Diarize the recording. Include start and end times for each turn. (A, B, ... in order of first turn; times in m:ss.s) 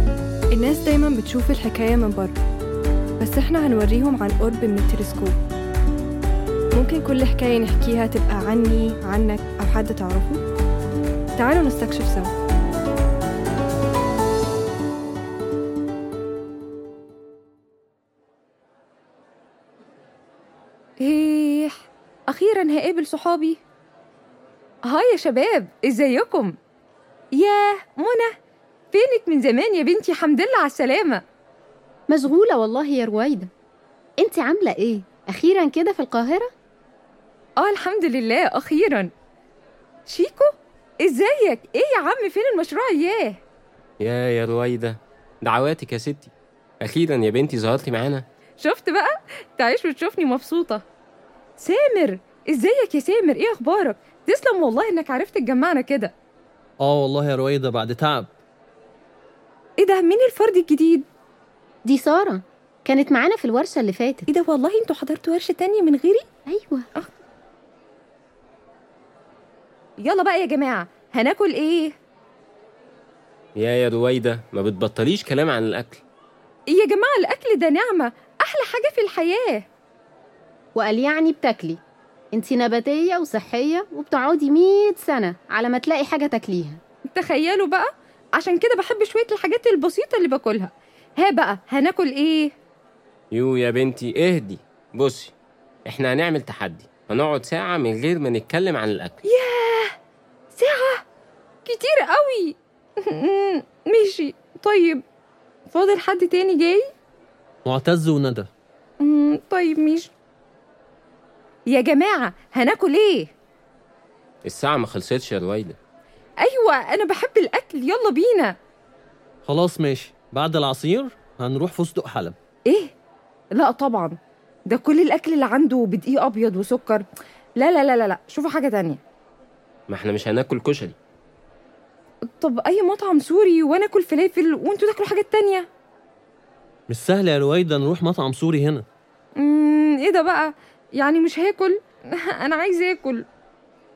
0:00.5-0:02.4 A
0:03.2-0:05.4 A
0:06.7-0:10.4 A
0:11.4-0:12.3 A
0:21.0-0:23.6 B
0:24.8-0:26.5 B
0:27.4-0:28.3 B
0:28.9-0:31.2 B
0:32.1-0:33.5 C
0:34.2-0:36.5 C
0:37.6-0:39.1 B
0:40.0-0:43.4 B
0:44.0-0:48.2 D
0:48.6-0:50.8 B
0:51.6-0:56.1 B
0:56.8-0:58.3 E
0:59.8-1:01.0 B
1:01.8-1:04.2 C
1:04.3-1:06.3 B
1:06.5-1:06.9 C
1:10.0-1:11.9 B
1:13.6-1:16.0 D
1:16.7-1:19.7 B
1:20.8-1:21.8 C
1:22.3-1:26.8 C
1:27.1-1:32.5 B
1:33.3-1:35.3 D
1:35.8-1:39.2 D
1:39.2-1:39.9 B
1:40.5-1:41.0 B
1:41.6-1:45.0 B
1:45.7-1:46.9 B
1:47.6-1:48.5 E
1:49.0-1:50.1 B
1:51.7-1:53.3 B
1:54.4-1:55.8 D
1:56.4-1:58.6 B
1:59.4-2:02.4 E
2:02.7-2:02.9 B
2:03.5-2:04.2 B
2:04.7-2:07.0 B
2:07.6-2:09.0 B
2:09.9-2:11.0 D
2:12.4-2:15.7 B
2:16.9-2:18.8 E
2:19.4-2:23.2 B